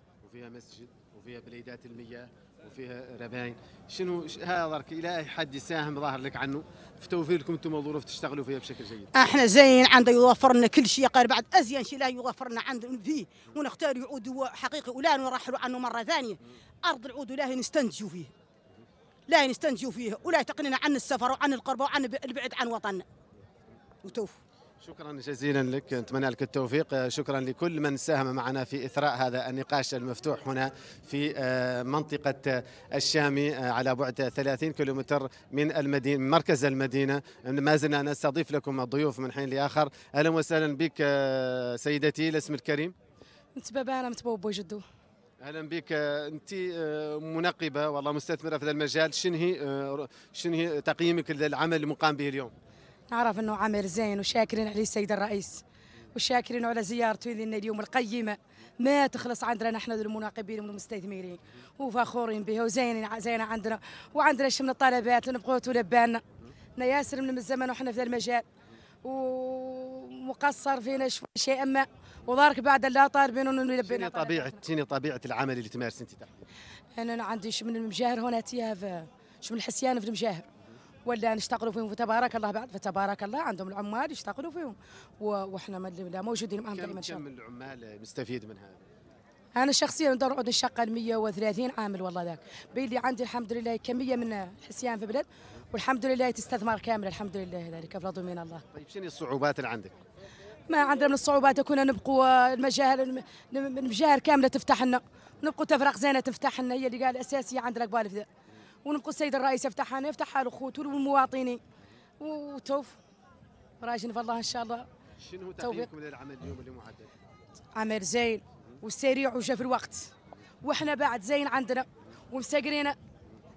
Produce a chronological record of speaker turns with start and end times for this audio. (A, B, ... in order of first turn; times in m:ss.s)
0:00.2-0:09.1 A
0:09.2-0:18.3 B
0:19.3-0:23.0 B
0:24.0-0:24.4 B
0:24.8-0:43.0 A
0:43.6-0:44.8 C
0:45.4-0:52.5 A
0:53.1-0:55.6 C
0:56.1-1:06.2 C
1:06.8-1:08.4 C
1:09.0-1:14.6 C
1:13.8-1:16.4 A
1:17.0-1:20.4 C
1:21.1-1:27.2 C
1:26.7-1:28.8 A
1:29.6-1:38.6 C
1:38.7-1:40.0 A
1:40.7-1:48.3 C
1:48.8-1:51.6 C
1:52.2-1:53.0 C
1:53.8-1:54.8 C
1:55.2-1:57.1 A
1:55.6-1:55.9 C
1:57.8-2:00.1 C
2:00.6-2:03.0 C